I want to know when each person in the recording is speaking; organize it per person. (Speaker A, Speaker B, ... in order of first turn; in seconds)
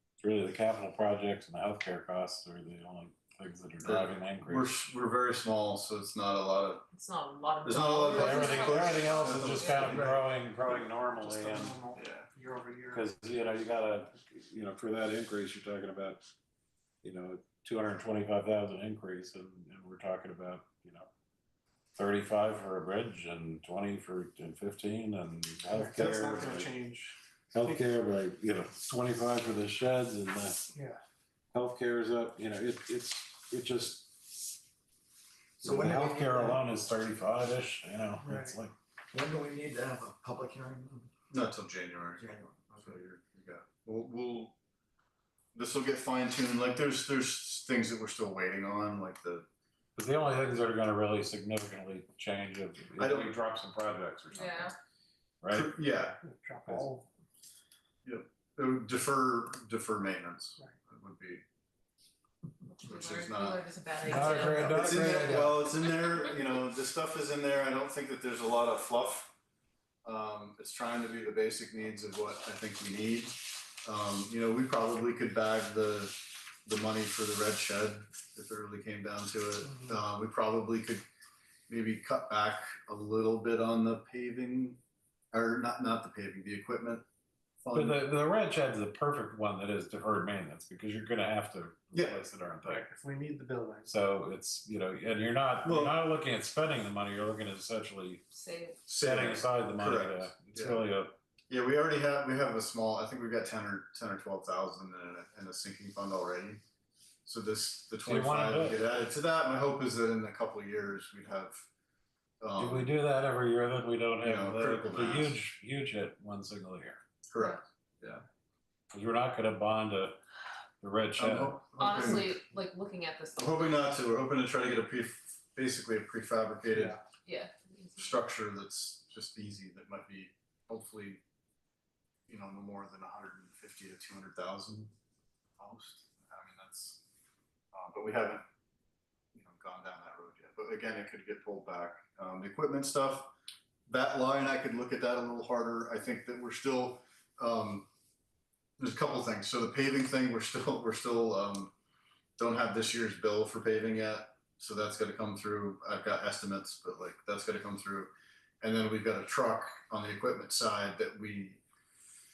Speaker A: 0.2-4.8, 8.1-11.8, 12.9-16.2, 17.0-21.1, 21.9-26.8, 27.5-30.7, 31.5-34.2, 35.6-38.7, 50.0-54.7, 55.4-55.7, 64.0-65.6, 87.7-92.9, 93.8-98.2, 98.9-101.2, 108.0-108.8, 112.6-117.0, 118.9-120.2, 120.8-121.6
Speaker B: 3.8-6.8, 7.6-10.1, 11.9-12.3, 41.3-44.5, 45.5-49.4, 53.0-53.3, 55.5-56.2, 58.0-61.4, 62.8-63.6, 64.2-69.3, 70.0-81.0, 81.7-84.8, 85.3-87.0, 87.6-88.0, 91.9-92.2, 95.6-96.0, 98.9-100.8, 101.5-106.6, 107.2-111.7, 112.4-112.9, 114.2-115.4, 117.3-118.2, 121.2-122.4, 123.4-127.0, 128.0-131.2, 132.3-134.9, 135.6-137.0, 137.7-138.4, 139.3-143.3, 143.9-147.9, 148.8-151.7, 152.4-161.6
Speaker C: 6.9-9.9, 54.3-54.7, 62.7-65.6, 98.3-98.8, 121.8-123.8, 127.2-128.2
Speaker D: 9.9-10.2, 10.8-13.1, 25.7-27.8, 30.7-31.0, 38.2-38.6, 56.2-57.0, 92.7-93.9
Speaker E: 35.6-36.4, 39.1-41.1, 42.2-43.0